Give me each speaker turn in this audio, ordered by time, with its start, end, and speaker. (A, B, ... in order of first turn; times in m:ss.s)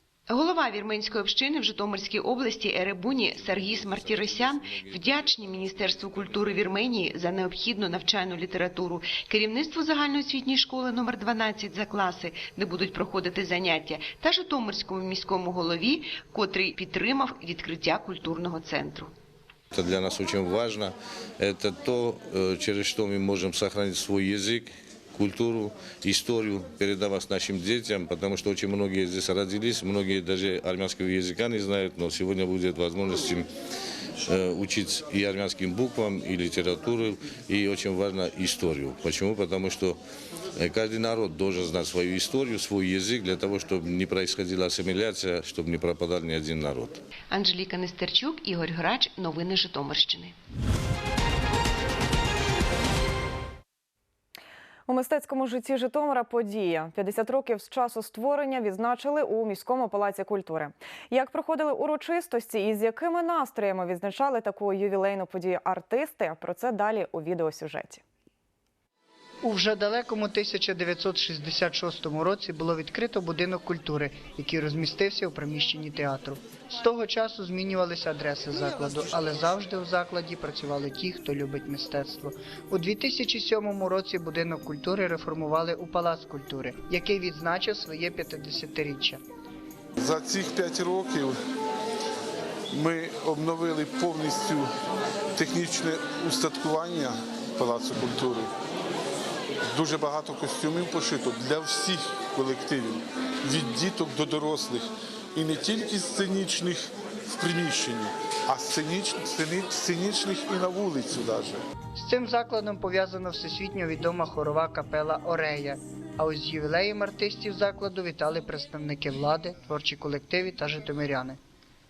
0:00.3-0:19.1 A
0:03.6-0:06.5 B
0:19.7-0:33.5 B
0:34.2-0:40.0 B
0:40.6-0:47.0 B
0:47.3-0:50.3 A
0:54.9-1:08.0 C
1:09.4-1:29.2 D
1:30.0-1:31.4 E
1:32.7-1:34.7 E
1:35.4-1:38.5 E
1:39.7-1:51.6 E
1:52.0-2:01.4 D